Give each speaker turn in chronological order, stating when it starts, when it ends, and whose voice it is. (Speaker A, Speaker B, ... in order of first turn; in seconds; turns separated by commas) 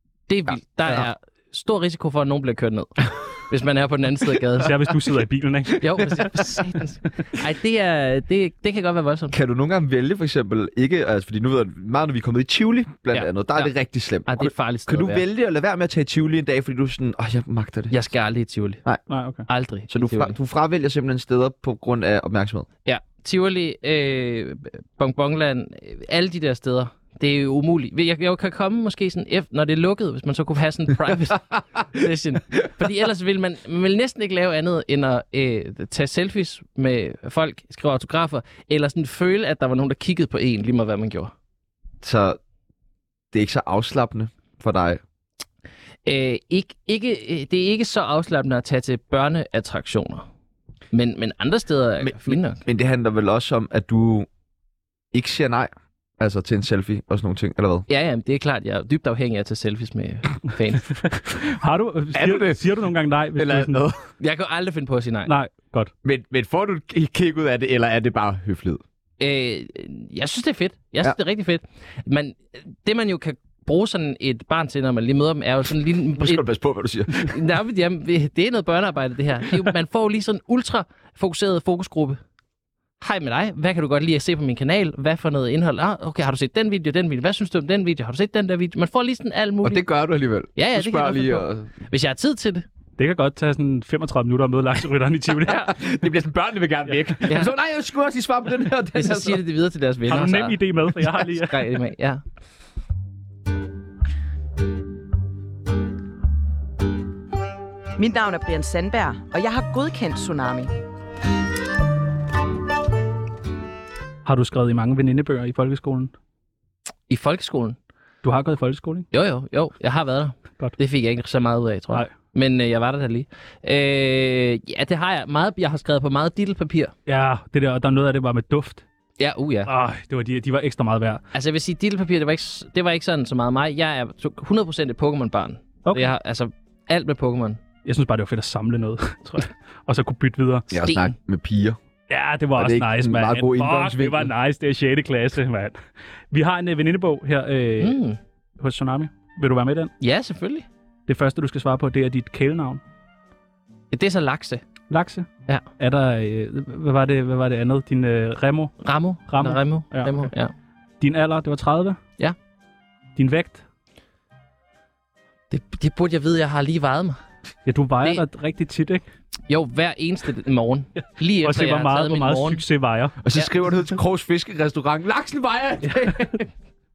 Speaker A: 0.3-4.7, Speaker B: 4.6-6.2, Speaker A: 5.8-9.3, Speaker C: 9.3-18.0, Speaker A: 13.1-13.7, Speaker A: 14.2-15.2, Speaker A: 17.9-18.8, Speaker B: 19.1-19.4, Speaker A: 19.5-20.4, Speaker C: 19.9-22.7, Speaker A: 22.9-41.3, Speaker C: 42.0-42.4, Speaker C: 43.3-45.0, Speaker A: 46.0-50.2, Speaker A: 50.9-52.6, Speaker C: 52.0-54.3, Speaker C: 55.1-57.9, Speaker A: 57.9-61.0, Speaker B: 61.0-63.9, Speaker C: 62.1-64.0, Speaker A: 64.2-65.3, Speaker B: 65.2-65.9, Speaker C: 66.0-68.8, Speaker A: 69.2-76.4, Speaker C: 76.2-77.4, Speaker A: 77.1-82.2, Speaker A: 83.0-89.8, Speaker C: 89.6-91.7, Speaker A: 90.5-92.7, Speaker B: 93.0-95.9, Speaker C: 95.5-99.4, Speaker A: 97.2-97.5, Speaker A: 98.9-102.2, Speaker B: 100.1-101.8, Speaker D: 108.0-110.7, Speaker B: 114.2-116.1, Speaker A: 117.1-117.8, Speaker B: 118.2-119.1, Speaker A: 119.1-126.9, Speaker B: 127.1-128.8, Speaker A: 129.2-129.7, Speaker B: 129.7-131.2, Speaker A: 131.3-137.6, Speaker B: 135.8-136.1, Speaker B: 137.8-140.7, Speaker C: 140.7-141.8, Speaker A: 140.8-141.1, Speaker B: 142.1-145.8, Speaker C: 142.6-144.3, Speaker B: 146.3-148.0, Speaker A: 147.8-148.2, Speaker B: 148.6-149.9, Speaker A: 150.0-150.7, Speaker B: 151.1-152.8, Speaker A: 153.9-154.6, Speaker B: 154.9-160.3, Speaker A: 158.8-160.5, Speaker B: 161.0-162.0, Speaker B: 163.2-163.6, Speaker A: 165.5-167.2, Speaker B: 167.7-169.0, Speaker A: 169.5-172.6, Speaker B: 171.4-173.2, Speaker C: 173.2-176.5